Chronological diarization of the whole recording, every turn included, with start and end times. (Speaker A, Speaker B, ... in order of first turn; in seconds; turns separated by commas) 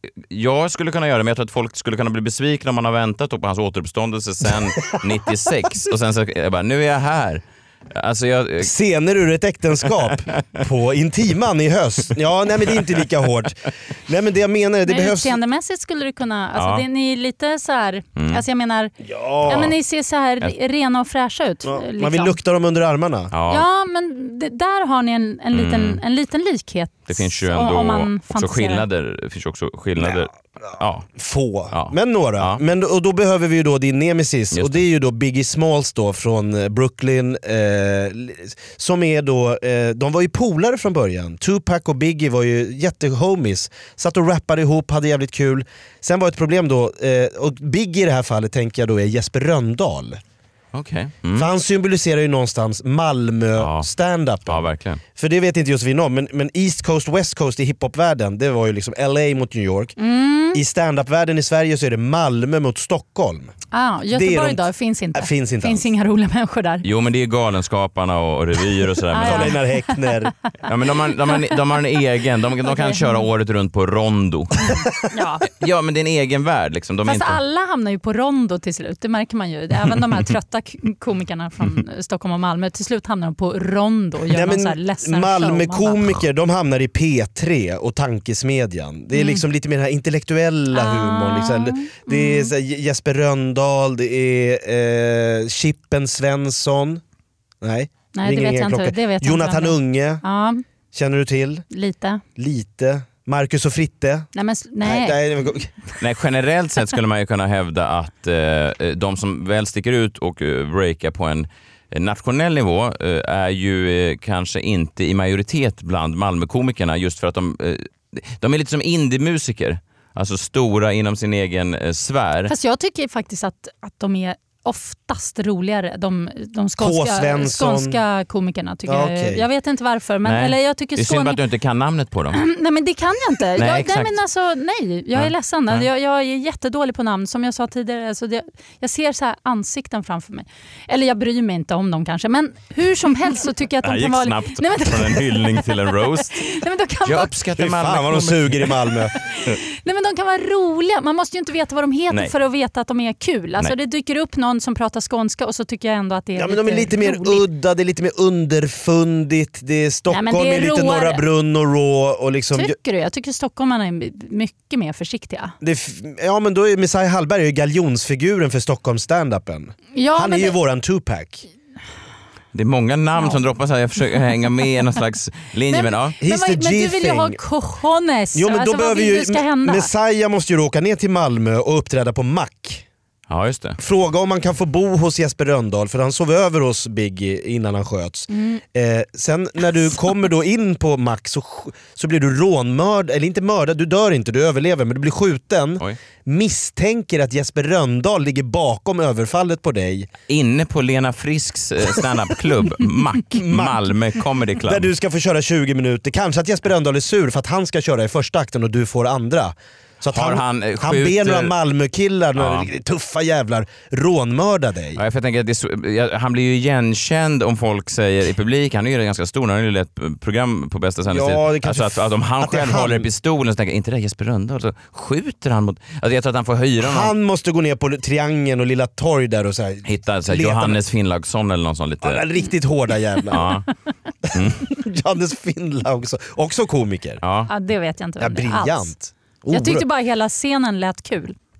Speaker A: 0.3-8.7, Speaker B: 8.6-15.3, Speaker C: 14.9-18.9, Speaker A: 16.6-16.8, Speaker A: 18.1-18.4, Speaker B: 19.0-19.7, Speaker C: 19.5-22.4, Speaker B: 21.7-23.3, Speaker A: 23.3-23.7, Speaker C: 23.5-28.8, Speaker A: 25.5-26.0, Speaker A: 27.1-31.1, Speaker B: 31.2-50.2, Speaker A: 31.7-32.6, Speaker A: 34.5-34.8, Speaker A: 50.7-51.5, Speaker B: 51.3-60.0, Speaker A: 53.5-53.9, Speaker A: 54.5-55.0, Speaker C: 60.0-60.6, Speaker B: 60.5-63.5, Speaker C: 63.7-66.8, Speaker B: 64.1-64.6, Speaker B: 65.1-65.9, Speaker A: 66.8-69.6, Speaker C: 69.1-70.0, Speaker B: 69.2-70.3, Speaker A: 70.7-74.7, Speaker C: 72.7-73.2, Speaker C: 74.7-75.5, Speaker A: 75.6-77.4, Speaker C: 77.0-86.1, Speaker B: 84.3-97.0, Speaker C: 89.1-89.4, Speaker C: 90.7-92.5, Speaker B: 97.6-100.2, Speaker C: 98.1-100.6, Speaker B: 100.9-101.6, Speaker C: 101.7-102.2, Speaker B: 102.4-104.3, Speaker C: 104.3-105.2, Speaker B: 104.8-105.7, Speaker A: 106.0-122.5, Speaker C: 122.5-131.4, Speaker B: 126.8-128.0, Speaker B: 128.9-129.4, Speaker A: 130.2-132.4, Speaker C: 132.3-145.7, Speaker A: 133.6-134.2, Speaker A: 135.1-135.9, Speaker A: 143.8-146.4, Speaker C: 146.4-147.3, Speaker A: 147.0-148.9, Speaker B: 147.6-149.1, Speaker C: 149.3-157.4, Speaker B: 156.3-162.7, Speaker C: 160.1-161.2, Speaker C: 162.5-165.5, Speaker B: 165.6-171.5, Speaker C: 169.9-170.6, Speaker A: 172.5-176.1, Speaker C: 175.7-179.9, Speaker B: 176.2-177.4, Speaker B: 178.3-182.8, Speaker A: 183.3-183.8, Speaker B: 183.8-200.1, Speaker C: 188.3-188.6, Speaker A: 200.3-204.9, Speaker B: 203.4-203.9, Speaker B: 204.7-215.0, Speaker A: 210.1-211.5, Speaker A: 212.3-212.7, Speaker A: 215.0-227.1, Speaker B: 221.1-223.1, Speaker B: 226.8-230.8, Speaker A: 229.8-232.2, Speaker B: 232.0-233.6, Speaker A: 233.3-233.7, Speaker A: 234.3-234.6, Speaker B: 234.3-237.2, Speaker A: 237.2-237.5, Speaker C: 237.5-238.9, Speaker B: 238.2-239.8, Speaker C: 239.5-241.3